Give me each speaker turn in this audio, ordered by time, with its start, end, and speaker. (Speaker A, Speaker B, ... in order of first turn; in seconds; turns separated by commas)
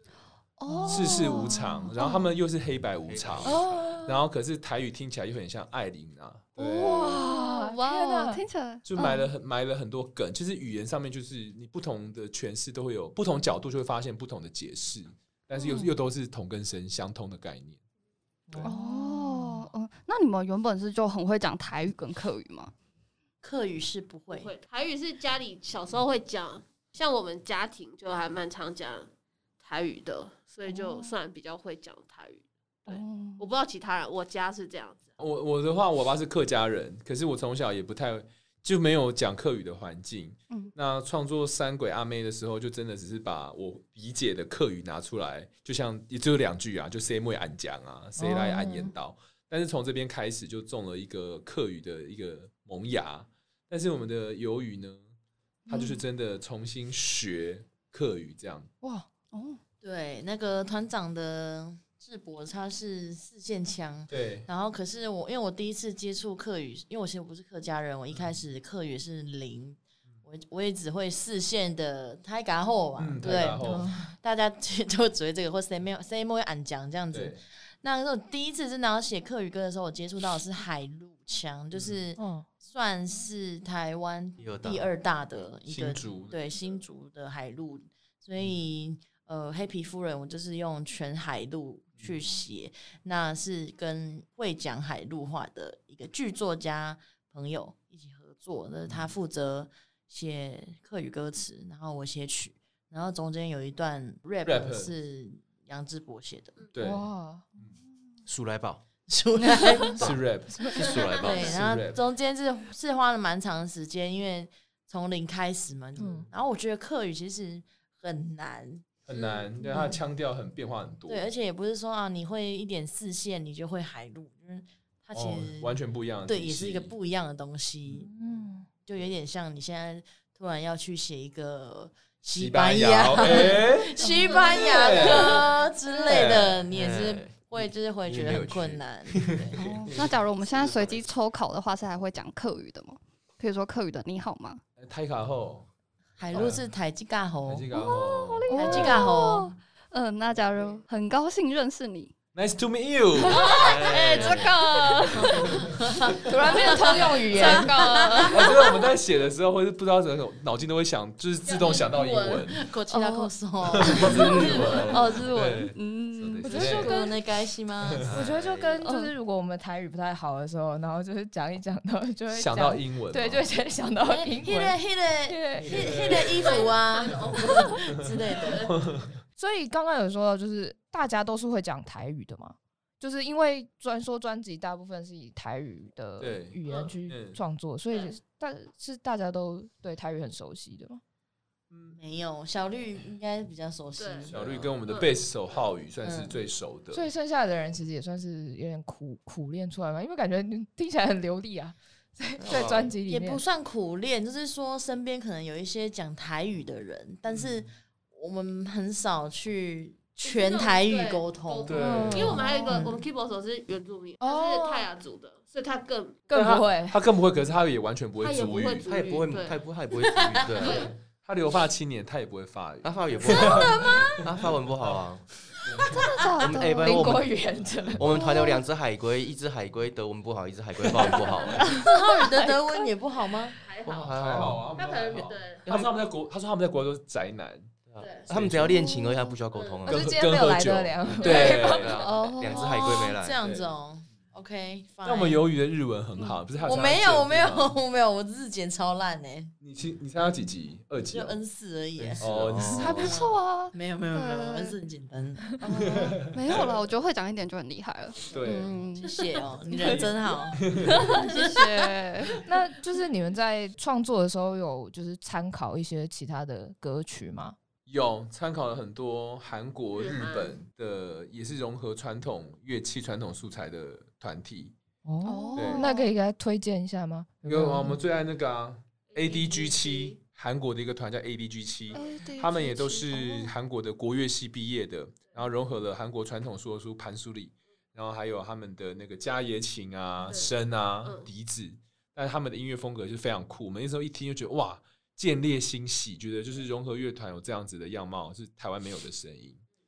Speaker A: 0.6-2.2, Speaker B: 0.7-2.1, Speaker C: 0.8-7.2, Speaker D: 3.0-4.0, Speaker B: 3.4-4.2, Speaker A: 6.6-9.3, Speaker B: 6.8-8.4, Speaker C: 8.8-17.8, Speaker B: 15.6-15.9, Speaker B: 18.5-19.7, Speaker A: 18.6-22.7, Speaker E: 23.4-24.5, Speaker F: 24.3-29.1, Speaker F: 29.6-35.1, Speaker A: 30.7-31.2, Speaker A: 32.9-33.4, Speaker C: 35.2-55.1, Speaker B: 48.2-48.9, Speaker A: 55.7-56.0, Speaker C: 55.7-58.7, Speaker B: 58.8-59.1, Speaker A: 59.3-59.6, Speaker E: 59.8-106.6, Speaker C: 64.1-64.5, Speaker C: 73.0-73.9, Speaker B: 73.6-74.1, Speaker C: 77.1-77.4, Speaker C: 81.7-82.0, Speaker B: 82.2-82.5, Speaker D: 84.4-84.9, Speaker C: 85.7-86.4, Speaker C: 104.5-104.9, Speaker C: 106.7-107.7, Speaker B: 106.8-107.5, Speaker D: 108.3-108.8, Speaker E: 109.1-110.2, Speaker C: 110.0-112.0, Speaker D: 110.8-111.8, Speaker F: 111.0-111.2, Speaker E: 111.2-118.9, Speaker B: 116.0-116.3, Speaker C: 119.1-121.3, Speaker F: 119.1-119.4, Speaker E: 121.1-128.1, Speaker C: 125.1-126.9, Speaker B: 128.1-128.7, Speaker E: 128.8-139.6, Speaker C: 132.3-135.5, Speaker F: 134.0-135.4, Speaker D: 136.1-139.3, Speaker A: 139.6-144.6, Speaker C: 139.8-140.2, Speaker D: 140.5-141.0, Speaker C: 144.8-145.7, Speaker E: 146.2-147.7, Speaker C: 146.3-146.6, Speaker C: 147.4-149.1, Speaker A: 147.7-152.2, Speaker B: 148.5-148.9, Speaker E: 148.5-149.5, Speaker C: 152.3-153.5, Speaker A: 153.3-155.3, Speaker E: 153.5-154.5, Speaker D: 153.5-154.6, Speaker E: 155.1-158.2, Speaker B: 156.2-158.3, Speaker F: 157.4-157.6, Speaker C: 158.3-162.6, Speaker F: 161.5-162.4, Speaker E: 162.5-165.1, Speaker A: 162.9-163.3, Speaker C: 163.7-166.9, Speaker D: 164.1-165.0, Speaker A: 164.3-167.1, Speaker E: 166.4-168.1, Speaker C: 167.9-168.2, Speaker D: 168.1-168.8, Speaker B: 168.1-174.8, Speaker A: 168.8-169.1, Speaker C: 172.3-173.5, Speaker E: 174.1-178.6, Speaker B: 175.3-175.9, Speaker C: 175.7-176.6, Speaker F: 176.2-178.7, Speaker C: 178.7-179.2, Speaker B: 179.4-191.0, Speaker C: 186.2-187.4, Speaker C: 191.7-192.0, Speaker E: 191.9-194.7, Speaker F: 194.0-194.3, Speaker C: 194.3-197.1, Speaker F: 194.9-195.2, Speaker E: 196.0-196.4, Speaker B: 196.9-203.4, Speaker D: 202.4-202.8, Speaker C: 202.5-202.9, Speaker E: 202.5-211.8, Speaker F: 210.2-216.2, Speaker C: 211.7-212.4, Speaker B: 211.7-212.4, Speaker A: 212.4-212.8, Speaker E: 212.7-213.0, Speaker B: 214.2-214.9, Speaker B: 216.3-217.0, Speaker C: 216.3-219.0, Speaker F: 218.2-220.9, Speaker D: 218.8-220.9, Speaker C: 220.6-224.3, Speaker D: 222.8-225.3, Speaker E: 223.3-224.2, Speaker C: 225.6-226.2, Speaker A: 225.9-227.1, Speaker D: 226.4-227.3, Speaker B: 226.5-228.1, Speaker D: 228.0-231.8, Speaker A: 228.1-228.6, Speaker A: 231.6-232.5, Speaker E: 231.8-233.6, Speaker F: 233.6-234.2, Speaker D: 233.9-234.7, Speaker C: 234.0-237.7, Speaker F: 234.8-235.7, Speaker D: 235.7-235.9, Speaker D: 237.9-240.1, Speaker F: 238.0-238.3, Speaker C: 238.3-238.8, Speaker A: 238.7-239.4, Speaker F: 239.5-239.9, Speaker B: 239.9-242.0, Speaker C: 239.9-242.1, Speaker D: 241.1-243.4, Speaker A: 242.0-243.2, Speaker E: 242.6-245.4, Speaker C: 243.4-243.7, Speaker C: 245.0-247.8, Speaker A: 246.2-246.4, Speaker E: 246.6-249.5, Speaker C: 249.6-251.4, Speaker E: 251.1-255.6, Speaker D: 252.0-253.1, Speaker C: 252.2-253.2, Speaker A: 252.8-254.8, Speaker A: 255.6-259.3, Speaker C: 255.7-256.8, Speaker C: 258.3-258.8, Speaker E: 259.0-261.5, Speaker C: 259.8-261.1, Speaker A: 260.9-262.4, Speaker B: 262.4-267.6, Speaker C: 267.9-274.8, Speaker F: 269.9-270.6, Speaker B: 275.1-278.0, Speaker A: 275.2-276.1, Speaker C: 275.5-275.8, Speaker C: 277.4-299.6, Speaker F: 279.1-280.2, Speaker A: 281.9-283.5, Speaker F: 291.0-291.3